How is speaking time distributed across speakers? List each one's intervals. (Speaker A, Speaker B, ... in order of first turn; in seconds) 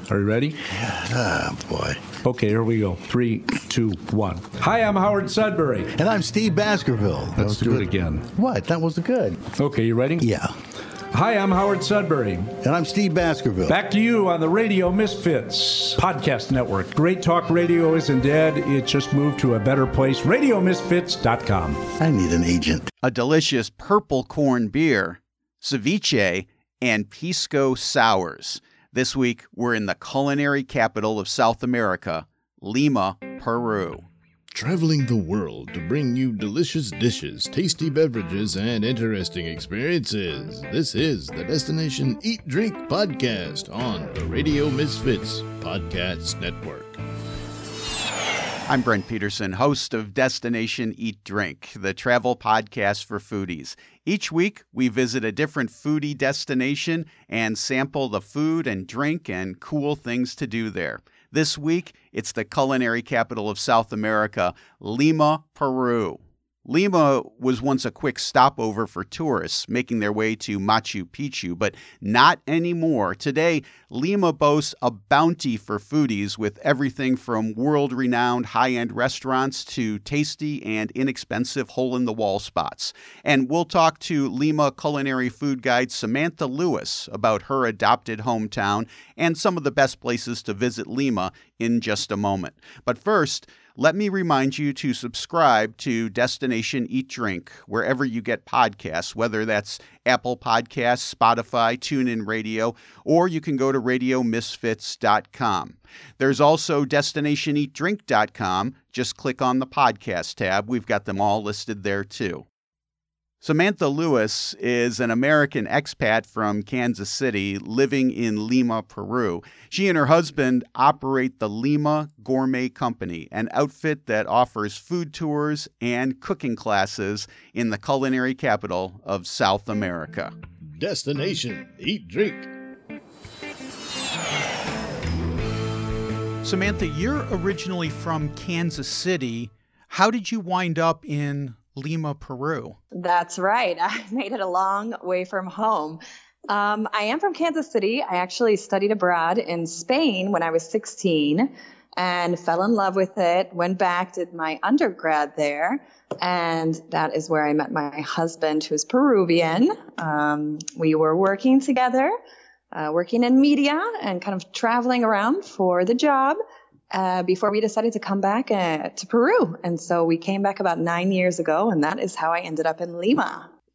Speaker A: 0.1-0.6, 2.2-5.9, 7.4-8.3, 9.5-10.3, 11.1-12.5, 13.7-21.8
Speaker B: 0.7-2.1, 6.0-9.5, 10.2-10.5, 12.6-13.7, 22.0-22.9
Speaker C: 23.0-34.1, 48.7-112.5, 113.4-130.3, 136.4-142.8
Speaker D: 34.5-47.0, 130.7-132.5
Speaker E: 142.9-162.1, 162.7-166.4, 166.9-173.5